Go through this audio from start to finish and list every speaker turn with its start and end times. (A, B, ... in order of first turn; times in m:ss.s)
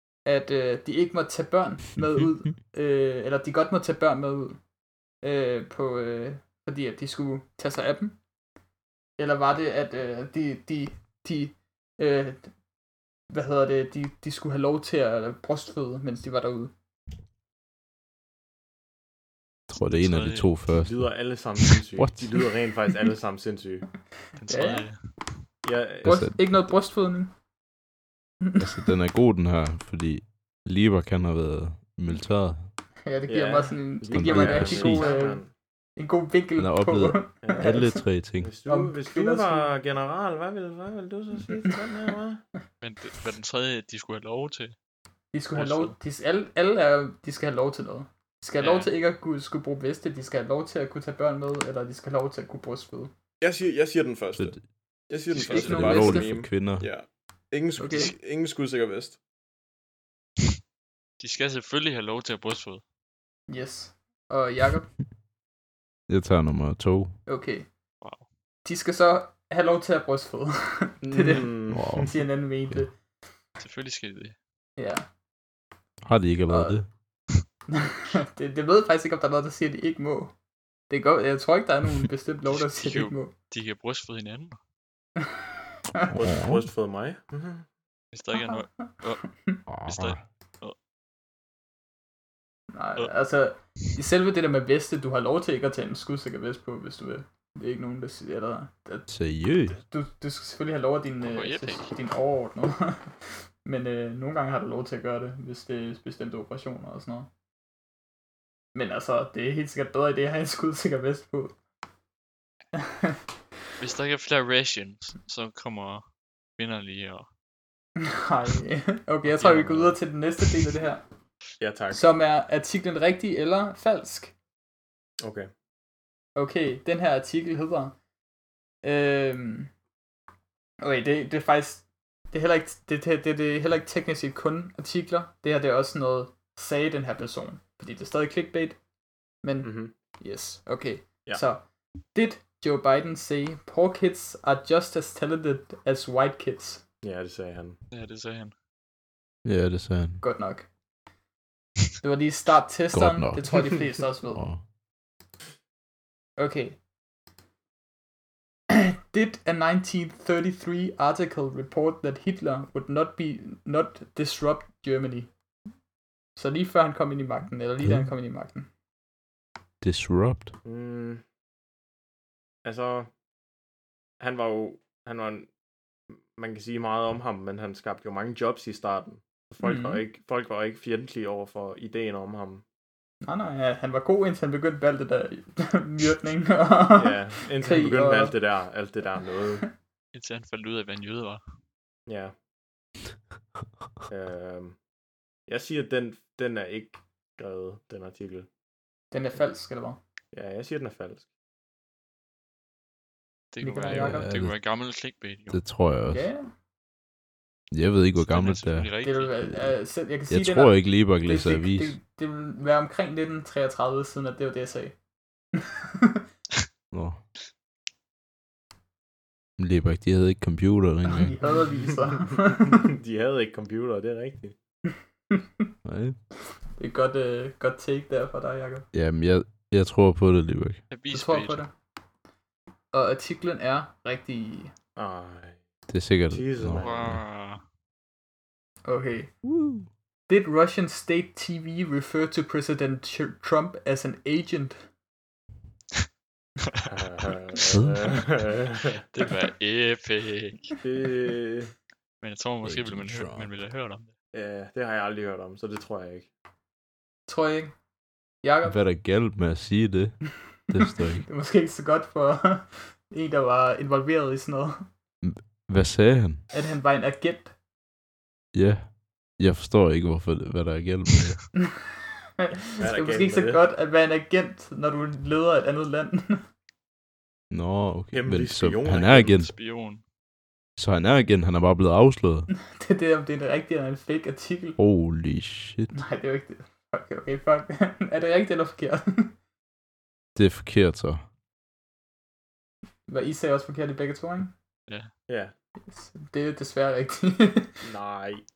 0:00.2-0:04.6 A
0:05.2-0:08.2 A
0:09.2-0:12.6 A
0:13.3-0:16.7 A
0:19.7-0:21.1 B
0:19.8-0:20.6 C
0:20.7-0:24.0 D
0:22.0-0:22.3 B
0:24.4-0:25.3 C
0:24.5-0:24.9 A
0:25.6-0:26.2 D
0:26.0-0:27.3 A
0:26.0-0:26.4 B
0:28.4-0:28.9 A
0:28.6-0:32.7 B
0:33.1-0:38.0 A
0:33.3-0:35.5 D
0:34.1-0:35.1 B
0:34.7-0:35.1 C
0:36.6-0:38.5 B
0:37.4-0:37.9 D
0:38.4-0:42.4 D
0:38.7-0:39.7 A
0:42.8-0:44.8 C
0:45.3-0:53.1 A
0:45.6-0:46.0 C
0:48.6-0:48.9 C
0:53.4-0:59.2 D
0:54.4-0:54.7 B
0:55.3-0:55.8 C
0:55.3-0:56.3 A
0:55.5-0:56.9 B
0:57.8-0:58.2 A
1:01.2-1:02.8 C
1:03.5-1:04.9 A
1:06.1-1:07.2 B
1:07.3-1:07.7 A
1:08.0-1:08.3 C
1:08.6-1:13.0 A
1:11.0-1:12.1 D
1:11.7-1:12.2 B
1:13.6-1:14.4 C
1:14.8-1:15.1 A
1:16.0-1:16.9 B
1:16.5-1:16.8 A
1:17.7-1:20.3 A
1:20.9-1:23.3 A
1:22.5-1:24.6 C
1:26.1-1:27.7 D
1:26.1-1:26.6 B
1:28.1-1:30.8 C
1:28.4-1:28.6 A
1:29.7-1:30.2 B
1:32.7-1:39.1 A
1:39.1-1:39.8 B
1:39.7-1:47.3 A
1:41.2-1:41.9 C
1:48.7-1:51.6 A
1:52.8-1:53.2 A
1:53.8-1:56.0 C
1:56.6-1:57.3 C
1:58.0-2:01.0 A
1:59.4-2:00.0 C
2:01.6-2:02.0 D
2:01.9-2:04.4 A
2:05.2-2:05.5 D
2:06.4-2:08.0 A
2:08.8-2:09.7 A
2:10.8-2:18.8 A
2:19.4-2:26.8 A
2:19.6-2:19.9 D
2:27.0-2:27.8 D
2:27.9-2:28.5 C
2:29.4-2:30.2 B
2:30.2-2:30.7 A
2:32.0-2:34.5 A
2:32.9-2:34.6 B
2:36.4-2:36.8 A
2:38.7-2:45.3 A
2:46.4-2:48.7 A
2:47.8-2:48.1 B
2:49.8-2:50.5 B
2:50.6-2:51.2 D
2:52.6-2:53.1 D
2:54.2-2:55.5 D
2:56.1-3:02.6 D
2:59.6-3:00.0 A
3:03.2-3:08.4 A
3:07.0-3:09.6 D
3:10.1-3:11.4 C
3:12.1-3:12.4 D
3:14.1-3:14.8 D
3:15.5-3:18.5 D
3:19.1-3:20.0 A
3:20.3-3:21.3 D
3:23.5-3:25.6 C
3:23.6-3:24.3 A
3:23.9-3:24.6 B
3:25.5-3:26.2 B
3:26.1-3:26.5 A
3:27.7-3:28.9 B
3:28.2-3:29.4 C
3:29.0-3:35.0 A
3:30.3-3:32.0 B
3:35.6-3:36.2 A
3:36.9-3:37.2 B
3:39.6-3:41.4 B
3:41.1-3:42.9 A
3:42.1-3:44.6 D
3:45.3-3:45.7 A
3:45.8-3:46.2 B
3:46.8-3:48.9 A
3:48.9-3:50.8 B
3:50.9-3:51.6 C
3:51.1-3:51.7 A
3:52.9-3:54.7 A
3:55.0-3:55.6 D
3:55.9-3:57.2 B
3:56.3-3:57.2 D
3:56.7-3:57.6 C
3:58.8-3:59.3 A
3:59.4-3:59.9 B
4:00.3-4:04.8 A
4:06.9-4:09.0 D
4:07.7-4:08.2 B
4:09.1-4:10.8 C
4:10.8-4:11.7 D
4:12.2-4:14.1 C
4:12.6-4:13.5 B
4:14.3-4:16.3 D
4:17.3-4:17.8 A
4:18.4-4:18.8 A
4:18.6-4:21.3 B
4:20.8-4:24.9 A
4:25.2-4:26.4 B
4:26.5-4:27.5 A
4:28.5-4:31.5 B
4:32.4-4:36.4 A
4:32.8-4:33.6 D
4:37.5-4:39.5 B
4:38.1-4:39.4 D
4:38.9-4:40.0 C
4:40.8-4:42.5 B
4:42.7-4:44.8 A
4:44.8-4:45.9 B
4:45.9-4:49.4 A
4:50.4-4:51.2 B
4:53.1-4:54.5 A
4:54.9-4:55.1 C
4:55.3-4:55.5 D
4:55.9-4:57.9 A
4:57.8-4:58.5 D